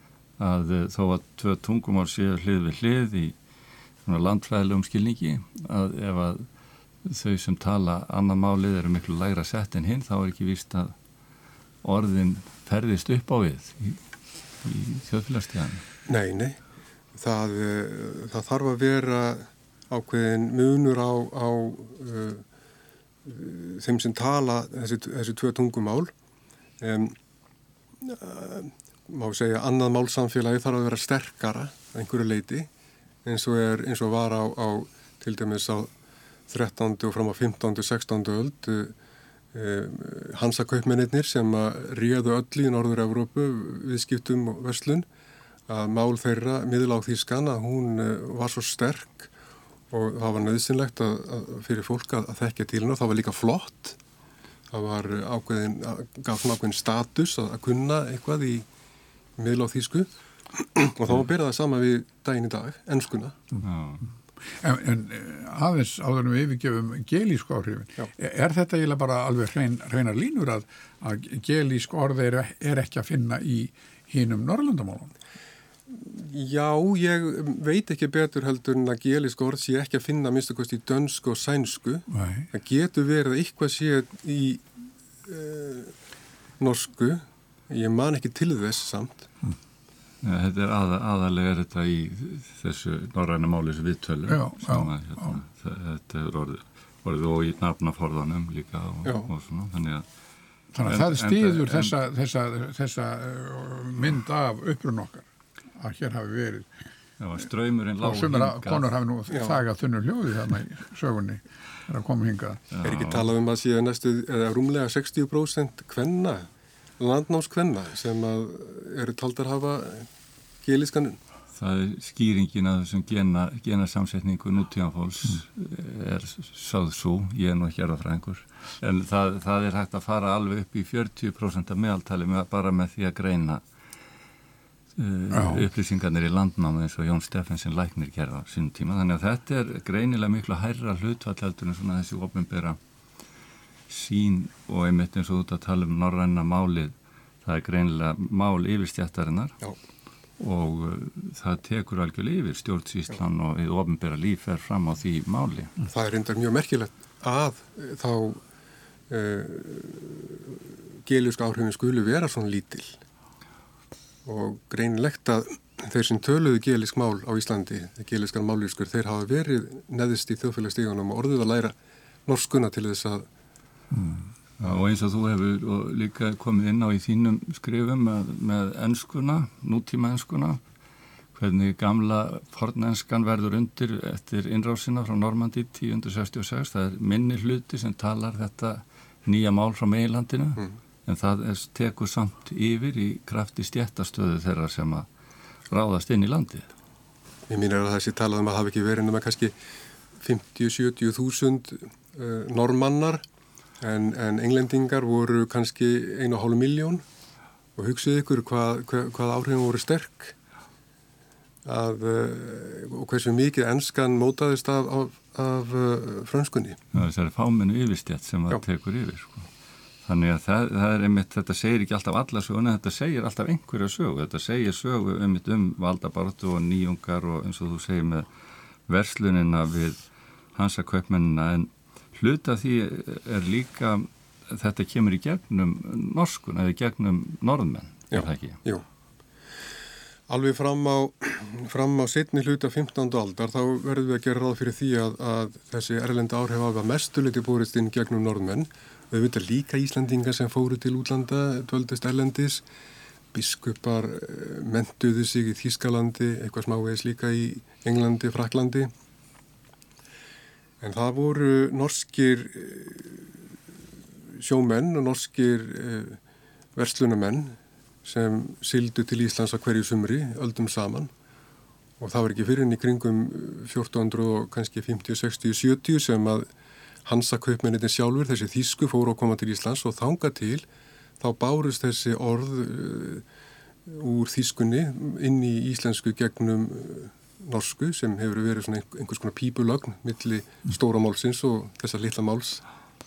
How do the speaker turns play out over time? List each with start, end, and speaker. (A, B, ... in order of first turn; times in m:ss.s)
0:00.4-0:03.3 A
0:04.0-0:06.5 A
0:07.0-0:10.9 A
0:11.8-0:14.0 A
0:14.6-0:15.8 A
0:16.1-0:16.6 B
0:17.2-0:22.4 B
0:23.2-0:26.1 B
0:26.8-0:27.1 B
0:28.0-0:32.7 B
0:33.2-0:35.9 B
0:36.5-0:38.9 B
0:39.5-0:45.0 B
0:45.7-0:49.3 B
0:49.9-0:54.0 B
0:54.7-0:58.7 B
0:59.4-1:03.4 B
1:03.6-1:04.0 A
1:04.6-1:15.1 C
1:15.9-1:24.6 B
1:22.1-1:22.5 C
1:25.2-1:25.9 B
1:26.6-1:29.3 B
1:30.2-1:40.0 A
1:34.3-1:35.4 C
1:39.0-1:39.3 B
1:40.7-1:46.7 C
1:40.8-1:41.9 A
1:47.2-1:48.9 A
1:48.0-1:52.6 C
1:49.3-1:49.6 B
1:52.7-1:53.3 A
1:52.8-2:00.1 B
2:00.6-2:01.2 B
2:01.5-2:13.6 A
2:15.0-2:22.8 A
2:15.3-2:15.6 C
2:23.9-2:29.6 A
2:30.4-2:35.8 A
2:35.9-2:38.4 B
2:39.1-2:43.0 B
2:44.2-2:51.7 B
2:52.2-2:53.3 B
2:53.9-2:54.3 C
2:54.6-3:00.6 A
3:01.3-3:15.1 A
3:15.7-3:16.7 A
3:17.5-3:19.5 B
3:20.2-3:23.2 B
3:23.8-3:27.0 B
3:27.8-3:30.4 B
3:31.6-3:36.8 B
3:36.9-3:39.5 A
3:40.0-3:48.3 A
3:48.9-3:50.0 A
3:50.5-3:58.6 A
3:58.1-3:58.8 B
4:00.3-4:12.6 B
4:13.3-4:18.9 B
4:20.8-4:23.4 B
4:24.3-4:26.2 B
4:26.8-4:31.1 B
4:32.0-4:36.5 B
4:37.0-4:40.6 B
4:41.2-4:43.2 B
4:43.8-4:52.6 B